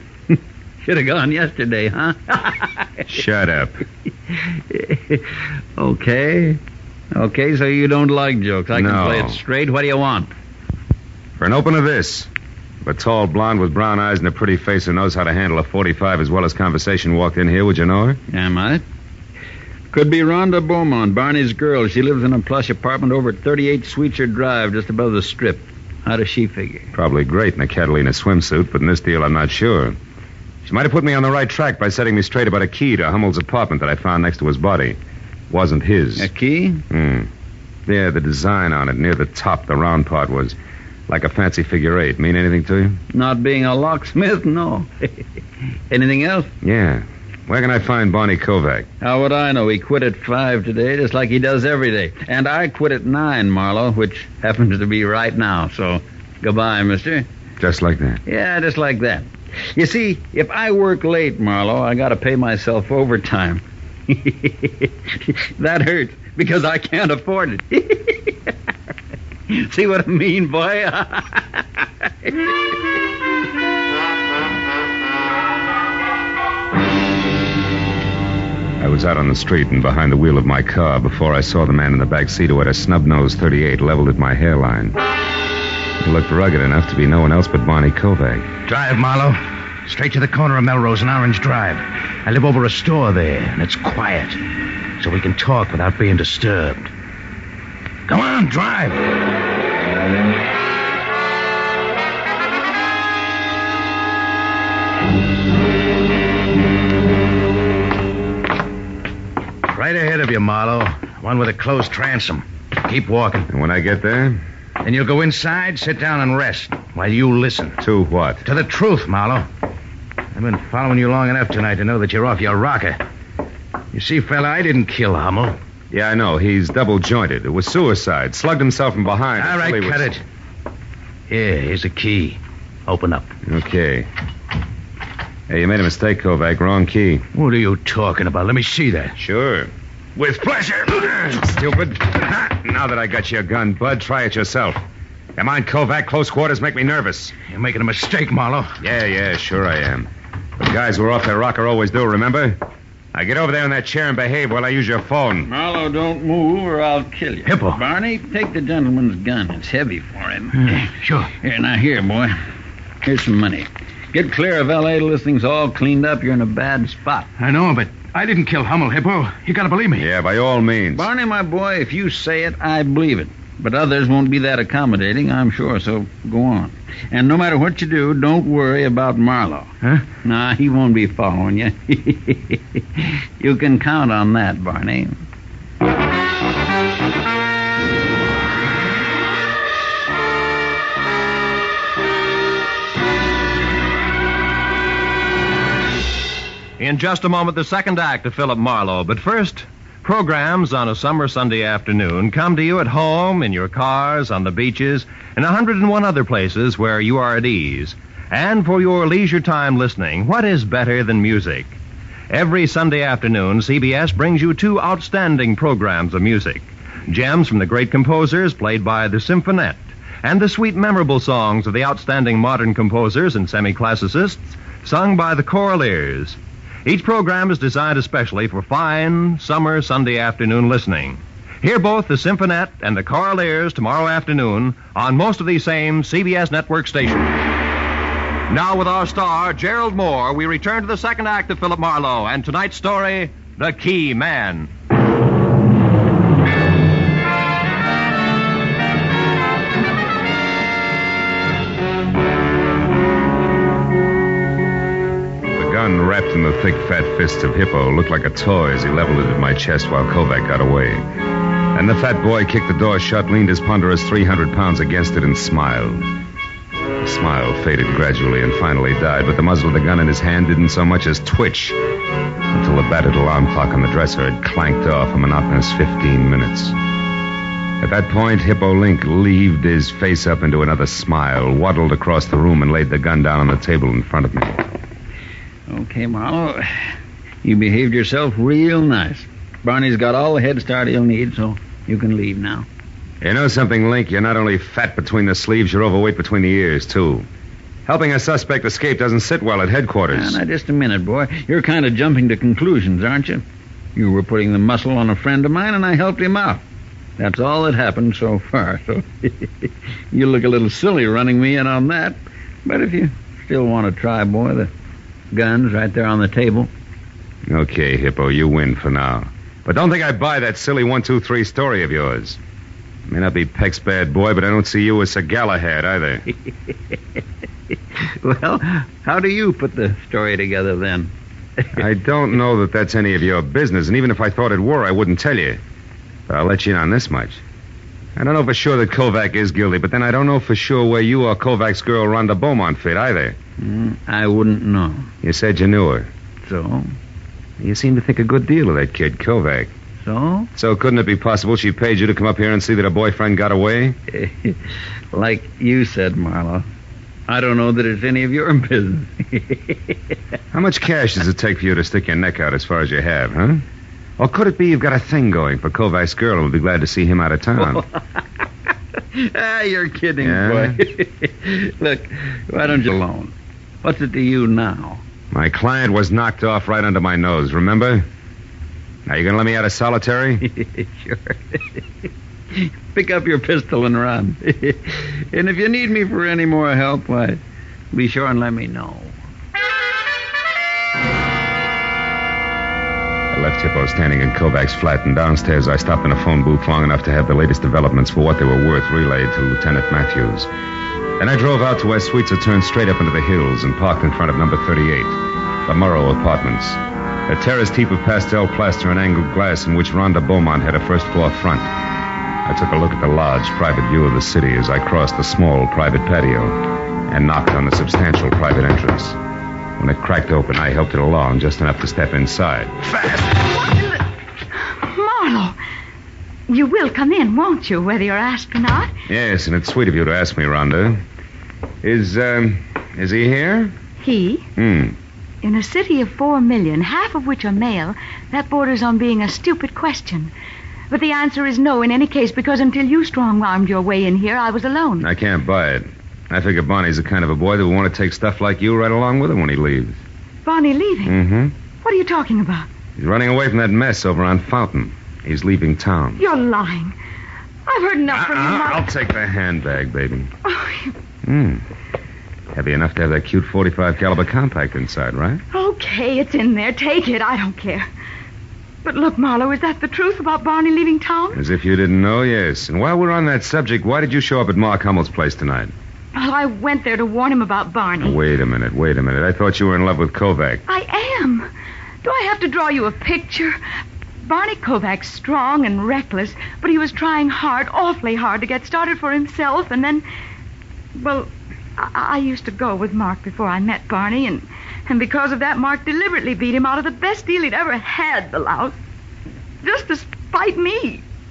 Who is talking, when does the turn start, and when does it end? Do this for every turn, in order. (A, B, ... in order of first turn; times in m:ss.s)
0:00.3-0:03.0 A
0:03.1-0:03.8 B
0:04.7-0:06.6 A
0:07.1-0:10.3 A
0:08.7-0:09.4 B
0:11.4-0:12.3 B
0:12.8-0:18.2 B
0:18.3-0:18.8 A
0:19.9-0:26.9 A
0:26.9-0:30.0 B
0:30.6-0:35.0 B
0:35.5-0:36.3 B
0:36.2-0:36.8 A
0:36.9-0:37.3 B
0:37.8-0:40.6 B
0:41.1-0:43.0 B
0:43.1-0:45.3 A
0:45.9-0:46.5 A
0:46.6-0:48.9 B
0:49.0-0:57.3 A
0:57.6-0:58.2 B
0:58.2-1:08.5 A
1:09.5-1:12.6 A
1:18.8-1:25.0 B
1:26.0-1:28.5 B
1:28.7-1:34.4 C
1:35.0-1:36.9 C
1:38.1-1:39.0 C
1:49.6-1:53.5 C
1:53.5-1:54.4 B
1:54.8-1:57.8 C
1:57.8-1:58.4 B
1:58.4-1:59.4 C
2:00.3-2:03.0 C
2:03.9-2:05.6 C
2:05.9-2:10.2 B
2:09.4-2:10.2 C
2:11.3-2:13.3 C
2:13.4-2:14.1 B
2:15.5-2:17.2 B
2:17.3-2:19.2 C
2:19.2-2:19.7 B
2:20.2-2:21.4 C
2:21.3-2:24.8 B
2:25.4-2:27.3 B
2:27.5-2:28.8 C
2:28.8-2:32.6 B
2:33.1-2:35.5 B
2:35.4-2:42.4 A
2:37.4-2:37.8 C
2:40.6-2:41.3 C
2:43.0-2:47.3 A
2:47.4-2:50.1 C
2:50.0-2:51.1 B
2:50.9-3:05.2 A
3:16.8-3:31.8 D
3:32.3-3:57.4 D
3:58.5-4:04.7 D
4:15.5-4:21.0 B
4:21.7-4:26.0 B
4:27.0-4:31.8 B
4:32.5-4:36.7 B
4:37.8-4:44.6 B
4:45.7-4:52.7 A
4:53.2-4:57.3 B
4:57.8-5:00.4 B
5:00.1-5:06.6 A
5:07.2-5:14.7 A
5:15.3-5:16.7 A
5:17.5-5:22.4 B
5:23.1-5:26.3 B
5:28.2-5:31.7 A
5:31.8-5:35.6 B
5:36.3-5:37.4 B
5:38.2-5:43.4 B
5:43.6-5:45.1 A
5:45.2-5:46.1 B
5:46.4-5:46.9 A
5:47.6-5:49.7 B
5:50.0-5:50.5 A
5:50.5-5:54.0 B
5:54.1-5:54.6 A
5:55.1-5:56.6 A
5:57.3-6:00.2 A
6:00.5-6:03.6 B
6:04.2-6:07.8 B
6:07.6-6:08.2 A
6:09.1-6:15.0 A
6:10.2-6:10.8 B
6:15.3-6:18.1 B
6:19.0-6:20.5 B
6:20.4-6:27.4 A
6:27.9-6:29.1 A
6:33.3-6:40.5 B
6:41.2-6:51.7 B
6:52.4-6:59.2 B
6:59.8-7:02.8 B
7:04.6-7:05.6 E
7:06.5-7:08.9 E
7:09.1-7:11.0 B
7:11.8-7:13.8 B
7:14.0-7:14.5 E
7:14.6-7:15.0 B
7:15.4-7:20.3 E
7:20.9-7:25.1 E
7:25.0-7:30.0 B
7:30.4-7:31.2 E
7:31.0-7:31.5 B
7:31.8-7:32.7 E
7:33.0-7:36.2 B
7:36.2-7:37.0 E
7:37.7-7:38.9 E
7:38.1-7:40.3 B
7:40.4-7:40.9 E
7:41.2-7:41.6 B
7:42.5-7:45.4 B
7:45.5-7:47.9 E
7:48.8-7:51.4 E
7:51.3-7:55.7 B
7:56.1-7:58.2 E
7:58.0-8:00.6 B
8:00.7-8:01.5 E
8:02.0-8:03.6 E
8:04.2-8:10.0 E
8:11.0-8:18.8 E
8:19.6-8:21.0 E